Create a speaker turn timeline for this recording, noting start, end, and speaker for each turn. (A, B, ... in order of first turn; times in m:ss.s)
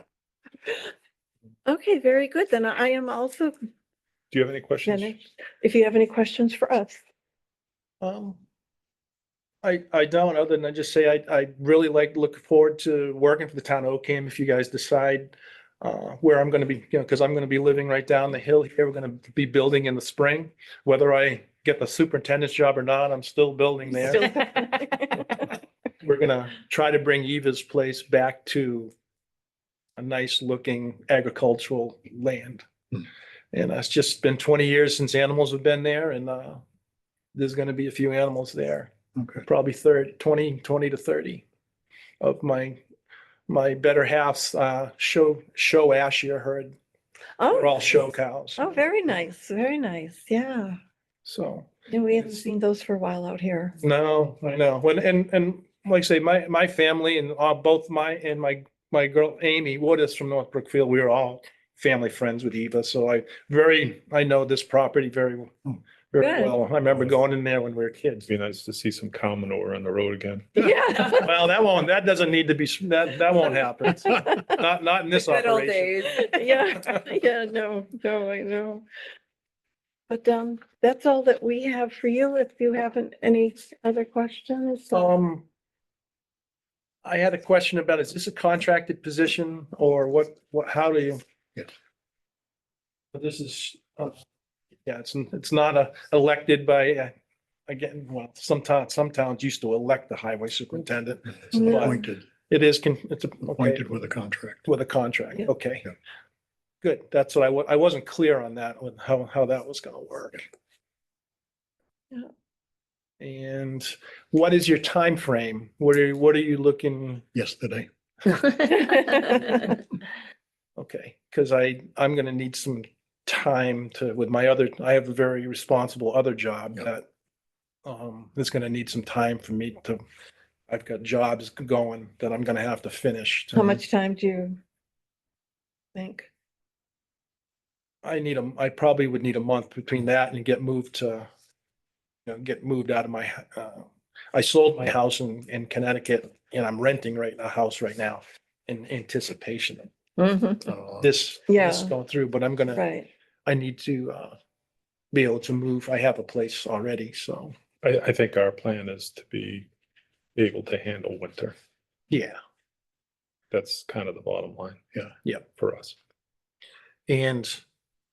0:01.7-0:03.6 A
0:04.3-0:05.2 B
0:04.8-0:07.0 A
0:08.0-0:08.4 C
0:09.6-0:24.4 C
0:24.1-0:25.2 A
0:26.0-0:28.9 C
0:30.0-0:32.6 C
0:33.5-0:36.6 C
0:37.3-0:38.9 C
0:39.2-0:39.4 D
0:39.4-0:41.4 C
0:42.2-0:42.8 C
0:43.5-0:46.7 C
0:47.4-0:47.8 A
0:47.5-0:48.6 C
0:48.6-0:50.8 A
0:51.2-0:52.4 C
0:51.9-0:53.8 A
0:53.8-1:08.2 C
1:06.2-1:06.5 A
1:08.2-1:10.7 B
1:10.6-1:11.3 A
1:11.1-1:16.3 C
1:14.1-1:14.6 A
1:15.1-1:18.8 A
1:20.1-1:25.1 A
1:24.9-1:25.4 C
1:27.0-1:31.2 C
1:33.1-1:34.1 C
1:34.8-1:37.1 C
1:37.7-1:43.9 C
1:41.5-1:42.2 D
1:41.6-1:41.9 A
1:43.5-1:44.7 D
1:44.6-1:45.9 C
1:46.8-1:50.4 C
1:53.2-1:57.2 C
1:57.3-1:58.4 D
1:58.9-1:59.6 A
2:00.8-2:07.1 C
2:07.8-2:10.0 C
2:10.7-2:13.8 C
2:13.5-2:14.6 A
2:15.9-2:16.3 A
2:18.0-2:21.3 C
2:22.2-2:29.9 C
2:30.2-2:30.7 A
2:30.7-2:31.1 D
2:31.0-2:32.8 C
2:31.5-2:31.9 A
2:32.7-2:33.1 A
2:33.4-2:34.4 C
2:35.1-2:37.5 C
2:37.8-2:39.7 B
2:40.4-2:41.5 B
2:42.1-2:42.4 C
2:43.5-2:44.8 B
2:45.4-2:45.9 B
2:47.1-2:47.6 C